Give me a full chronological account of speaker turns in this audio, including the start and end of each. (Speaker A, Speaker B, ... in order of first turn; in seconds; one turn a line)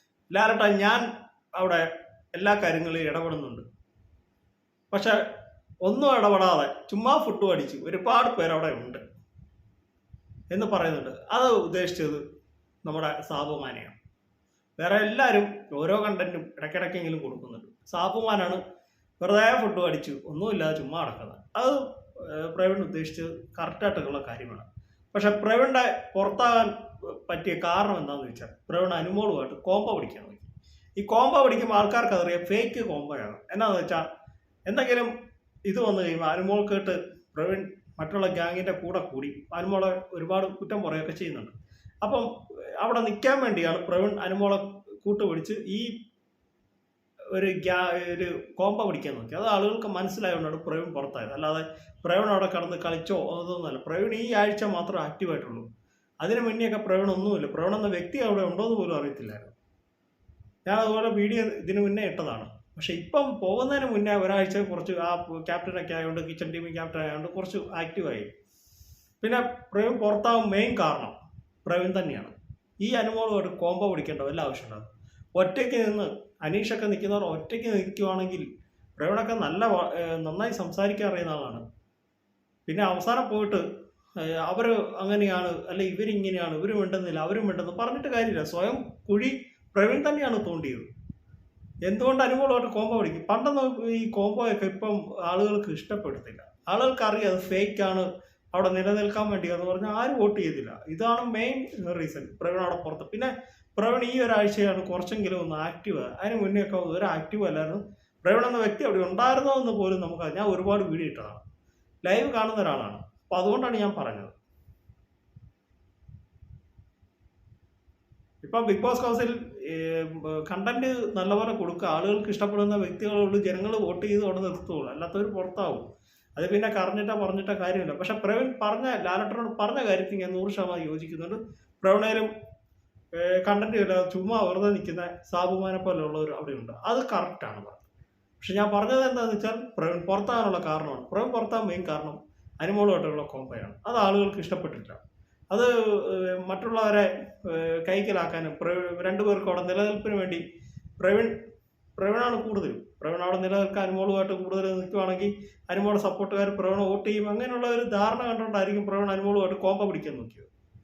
Speaker A: 0.3-3.6
Speaker A: 4.9-5.2
Speaker A: 5.8-9.0
Speaker A: 10.5-12.2
Speaker A: 12.8-14.0
Speaker A: 14.8-18.6
Speaker A: 19.2-34.1
Speaker A: 34.7-35.1
Speaker A: 35.7-45.9
Speaker A: 47.3-55.6
Speaker A: 56.2-59.5
Speaker A: 60.6-68.3
Speaker A: 69.2-78.5
Speaker A: 79.0-81.6
Speaker A: 82.7-83.6
Speaker A: 84.2-90.9
Speaker A: 91.8-111.4
Speaker A: 112.0-114.3
Speaker A: 118.4-132.3
Speaker A: 133.1-137.9
Speaker A: 138.4-150.4
Speaker A: 151.0-151.3
Speaker A: 152.0-160.5